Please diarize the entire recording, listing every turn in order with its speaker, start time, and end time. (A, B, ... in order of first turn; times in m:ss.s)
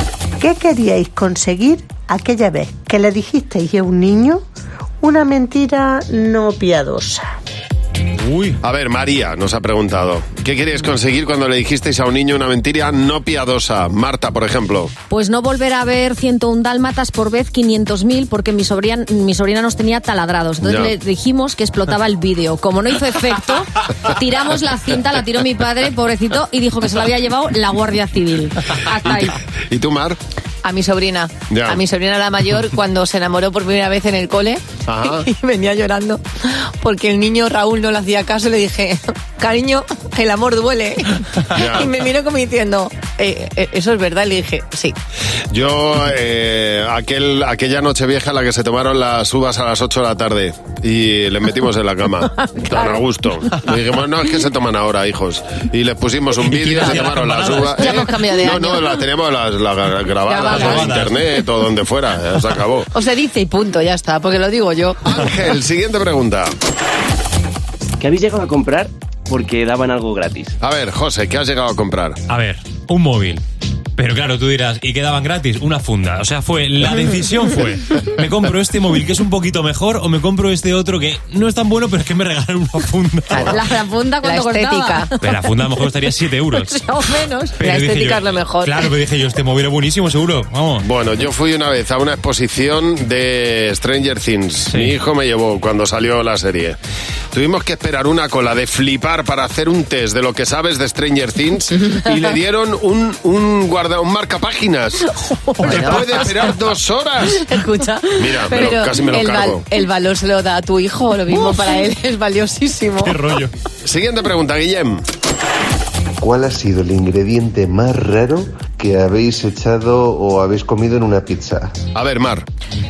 0:00.4-0:04.4 A
0:05.0-0:07.2 A
0:08.6-0:14.9 B
0:15.1-0:29.4 C
0:20.6-0:20.9 B
0:29.0-0:30.2 B
0:30.6-0:44.9 D
0:31.5-0:31.8 B
0:34.8-0:35.2 B
0:41.5-0:41.9 B
0:45.5-1:02.9 B
0:52.4-0:53.0 D
0:56.4-0:58.2 E
0:57.7-0:59.0 D
1:00.2-1:01.4 E
1:00.5-1:00.8 D
1:02.9-1:05.0 D
1:05.0-1:06.5 B
1:08.0-1:10.6 F
1:10.6-1:12.2 B
1:12.3-1:13.4 E
1:14.0-1:23.6 E
1:23.3-1:25.1 D
1:23.4-1:25.4 C
1:25.2-1:30.8 E
1:26.5-1:28.9 D
1:30.8-1:36.8 B
1:37.3-1:47.4 B
1:45.1-1:46.5 D
1:45.6-1:46.0 E
1:47.2-1:53.2 D
1:48.2-1:49.6 B
1:53.0-1:53.5 E
1:53.8-1:55.0 B
1:56.2-2:01.7 G
2:01.9-2:02.4 B